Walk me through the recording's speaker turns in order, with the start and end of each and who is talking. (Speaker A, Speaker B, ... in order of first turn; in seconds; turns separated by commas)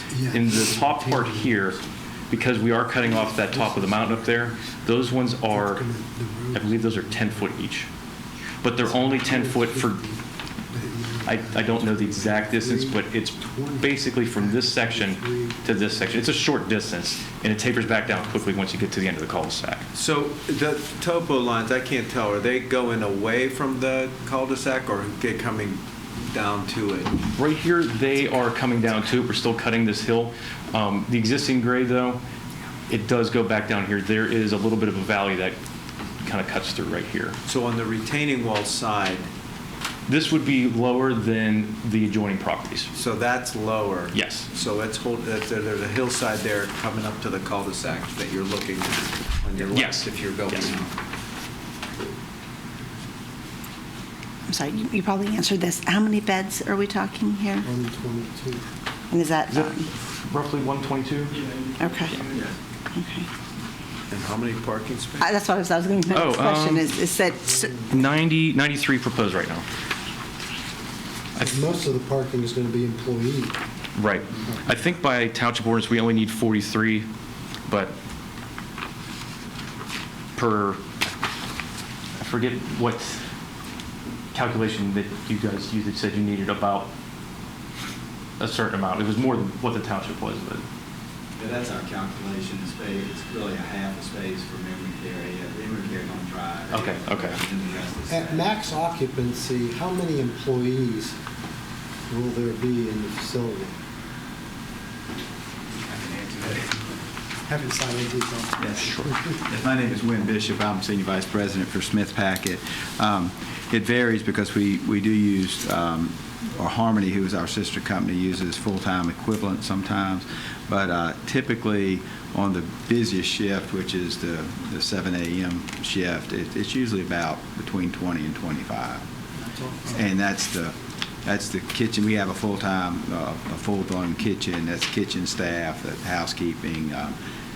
Speaker A: 0.2-1.6, Speaker B: 0.3-5.8, Speaker A: 3.9-4.4, Speaker A: 5.7-7.4, Speaker C: 5.8-6.3, Speaker B: 6.5-7.9, Speaker B: 8.6-10.0, Speaker A: 9.1-10.1, Speaker C: 10.7-11.3, Speaker A: 11.2-12.6, Speaker B: 11.2-19.9, Speaker A: 14.5-15.4, Speaker A: 16.1-16.4, Speaker A: 19.9-27.1, Speaker B: 27.2-32.2, Speaker B: 32.9-35.6, Speaker B: 36.2-37.4, Speaker A: 37.5-39.3, Speaker B: 40.1-42.9, Speaker A: 43.0-50.9, Speaker B: 44.1-44.5, Speaker B: 49.7-50.6, Speaker D: 54.5-57.7, Speaker A: 57.8-58.1, Speaker D: 59.1-59.9, Speaker B: 59.5-61.4, Speaker D: 61.8-62.1, Speaker D: 63.0-63.3, Speaker A: 64.1-65.3, Speaker D: 65.2-67.9, Speaker B: 66.1-66.9, Speaker B: 67.9-69.6, Speaker B: 71.4-71.7, Speaker C: 71.5-73.6, Speaker B: 74.0-77.1, Speaker B: 77.7-78.0, Speaker B: 80.3-80.9, Speaker B: 82.2-83.2, Speaker B: 84.3-86.9, Speaker B: 88.4-90.6, Speaker E: 91.4-98.5, Speaker B: 96.7-97.4, Speaker C: 98.1-101.2, Speaker C: 102.1-103.8, Speaker C: 107.5-108.6, Speaker E: 108.6-129.0, Speaker E: 129.9-137.2